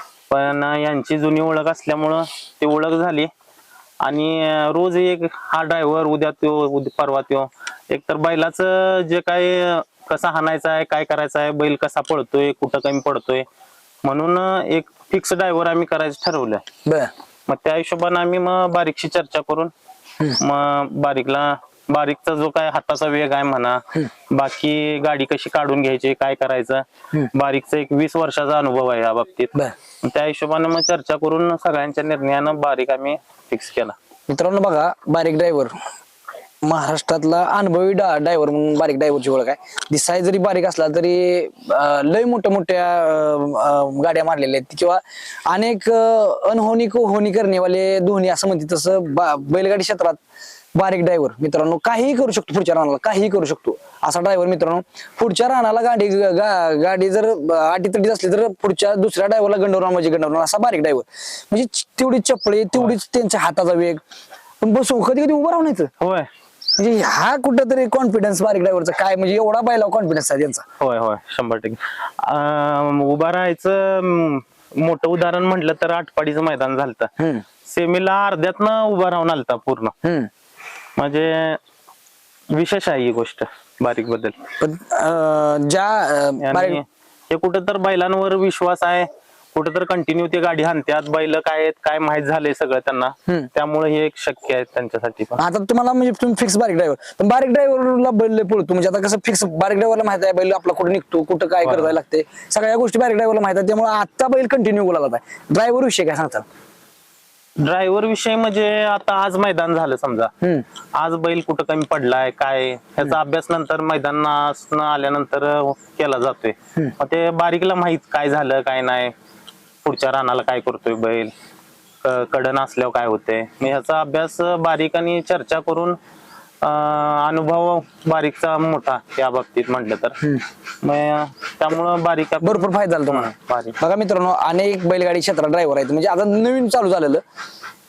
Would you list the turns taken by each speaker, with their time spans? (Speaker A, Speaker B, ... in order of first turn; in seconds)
Speaker A: 0.3-3.3, 4.0-13.4, 14.1-16.6, 17.5-19.7, 20.4-34.0, 66.0-66.3, 70.8-77.1, 77.7-79.9, 81.0-81.6, 82.5-84.4, 86.4-95.4, 101.6-101.9, 107.6-110.3, 111.0-119.1, 119.8-121.3, 122.0-126.0, 126.6-130.2, 130.8-133.8
Speaker B: 16.9-17.1, 34.3-35.8, 36.6-50.2, 50.8-64.0, 64.6-65.9, 66.8-70.6, 77.2-77.5, 80.0-80.3, 84.6-86.8, 95.4-106.5, 132.4-137.2